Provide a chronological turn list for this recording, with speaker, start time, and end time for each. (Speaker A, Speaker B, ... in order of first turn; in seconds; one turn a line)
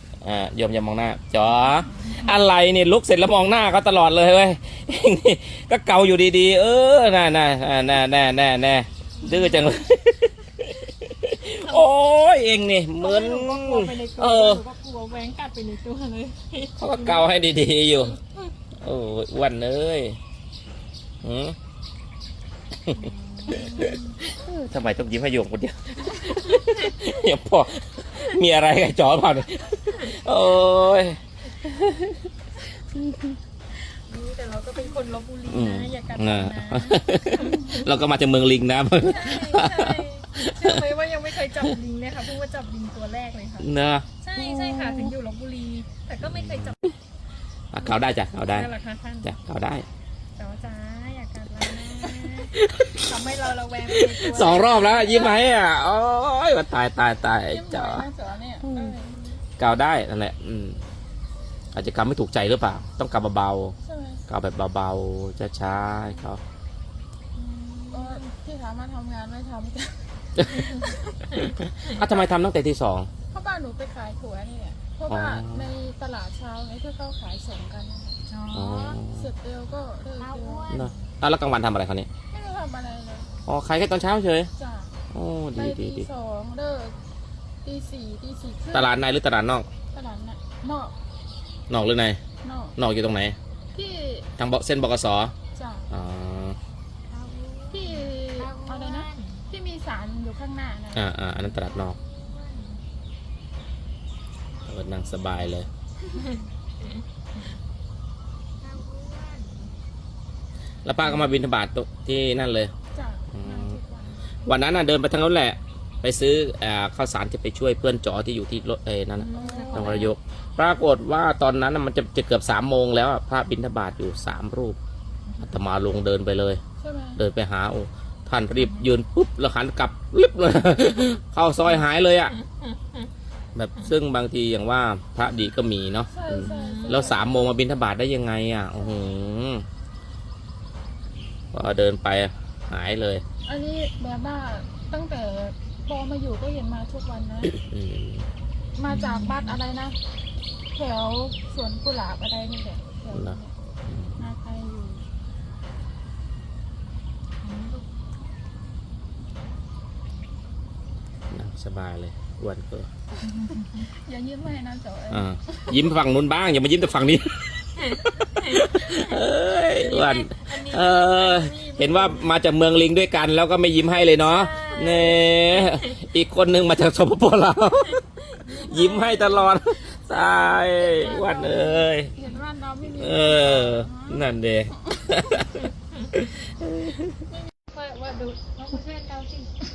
Speaker A: 0.2-14.6
Speaker B: 1.8-2.2
Speaker C: 9.2-9.8
Speaker C: 11.6-11.9
Speaker C: 13.0-17.3
Speaker A: 16.8-18.2
Speaker A: 18.8-20.2
Speaker A: 21.2-21.6
Speaker C: 22.9-23.8
Speaker B: 23.5-24.2
Speaker A: 23.5-32.1
Speaker C: 29.7-30.1
Speaker C: 33.7-37.9
Speaker A: 35.5-40.8
Speaker C: 39.0-43.7
Speaker A: 43.6-44.1
Speaker C: 44.2-46.8
Speaker A: 46.2-46.8
Speaker A: 47.7-48.7
Speaker C: 47.8-49.3
Speaker A: 49.2-49.9
Speaker C: 50.4-55.4
Speaker A: 52.5-53.0
Speaker A: 54.0-58.1
Speaker B: 57.5-59.3
Speaker A: 59.6-60.8
Speaker A: 61.7-63.8
Speaker B: 63.8-64.2
Speaker A: 64.3-66.4
Speaker C: 67.4-68.2
Speaker B: 67.9-70.1
Speaker A: 70.4-70.6
Speaker C: 70.5-72.0
Speaker B: 70.8-71.1
Speaker A: 71.4-73.1
Speaker B: 73.3-78.2
Speaker A: 75.1-75.7
Speaker C: 78.3-79.0
Speaker A: 78.5-79.3
Speaker B: 79.1-80.9
Speaker C: 80.2-81.1
Speaker A: 80.7-82.1
Speaker B: 82.3-83.3
Speaker A: 83.5-84.5
Speaker B: 84.6-84.9
Speaker A: 85.1-86.1
Speaker B: 85.5-87.0
Speaker B: 87.6-88.9
Speaker A: 88.7-89.7
Speaker B: 89.9-90.9
Speaker A: 91.7-92.2
Speaker B: 92.4-92.8
Speaker A: 92.8-93.4
Speaker B: 93.7-94.3
Speaker A: 94.4-95.3
Speaker B: 95.5-95.9
Speaker A: 95.9-96.6
Speaker C: 97.1-99.5
Speaker B: 97.7-101.1
Speaker A: 100.9-102.0
Speaker C: 101.3-102.8
Speaker C: 104.5-105.1
Speaker A: 104.7-105.7
Speaker C: 106.1-107.0
Speaker C: 108.6-109.7
Speaker A: 110.8-112.7
Speaker C: 111.0-111.3
Speaker B: 112.9-114.2
Speaker A: 113.3-113.8
Speaker A: 114.5-124.8
Speaker C: 119.2-120.1
Speaker B: 119.3-120.1
Speaker C: 125.2-125.6
Speaker A: 125.4-126.6
Speaker B: 126.8-127.2
Speaker A: 127.2-132.3
Speaker C: 128.5-128.9
Speaker C: 132.4-132.7
Speaker A: 133.6-139.6
Speaker B: 136.1-137.5
Speaker C: 136.4-137.1
Speaker B: 138.8-139.0
Speaker A: 141.5-143.2
Speaker B: 143.4-147.5
Speaker A: 147.5-148.3
Speaker B: 148.8-150.0
Speaker C: 148.9-149.6
Speaker B: 150.7-153.5
Speaker A: 153.1-154.2
Speaker B: 154.2-155.0
Speaker C: 157.4-157.9
Speaker A: 161.3-162.9
Speaker C: 163.3-163.9
Speaker B: 163.9-165.9
Speaker A: 165.1-167.5
Speaker C: 167.7-172.3
Speaker A: 168.0-182.1
Speaker C: 174.2-176.0
Speaker C: 178.3-179.6
Speaker B: 180.6-185.2
Speaker A: 182.8-185.6
Speaker A: 186.1-187.1
Speaker C: 187.7-189.5